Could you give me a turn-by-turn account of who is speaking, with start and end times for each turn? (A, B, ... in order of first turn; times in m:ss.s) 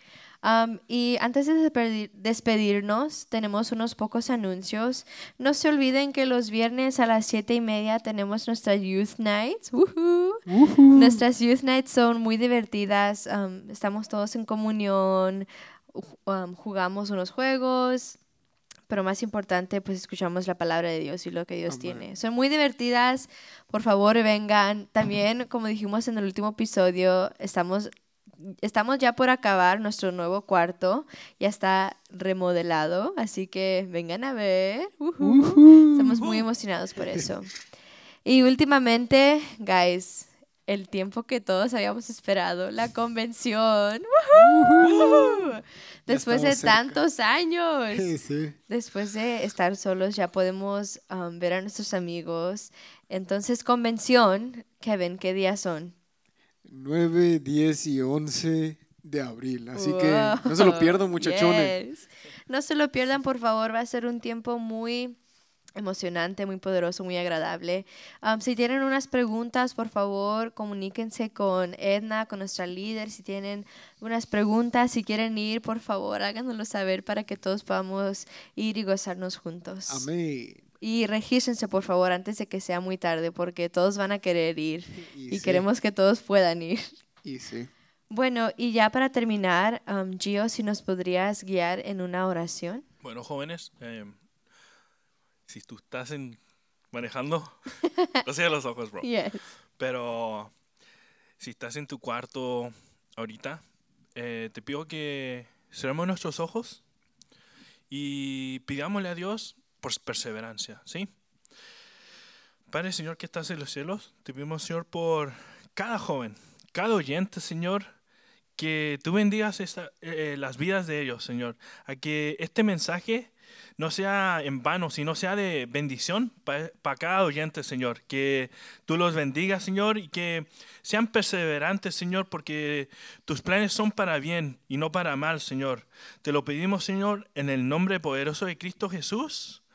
0:00.4-0:18.2 A
0:10.5-0:11.2 B
0:18.9-0:37.5 A
0:21.7-0:22.1 B
0:35.2-0:36.5 B
0:38.2-0:48.1 A
0:44.3-0:45.3 B
0:44.9-0:45.3 C
0:46.1-0:47.0 B
0:47.9-0:48.6 B
0:48.7-0:56.0 A
0:56.6-1:01.8 B
0:59.7-1:05.2 A
1:05.8-1:20.1 A
1:19.9-1:20.6 B
1:20.8-1:26.9 A
1:24.9-1:25.7 B
1:27.2-1:27.7 B
1:28.1-1:32.8 A
1:33.0-1:34.2 C
1:35.5-1:36.4 C
1:36.9-1:39.1 C
1:39.0-1:39.5 A
1:39.8-1:40.5 C
1:41.4-1:43.6 C
1:44.2-1:46.8 C
1:47.9-1:51.1 C
1:52.7-1:57.9 C
1:58.6-2:19.6 C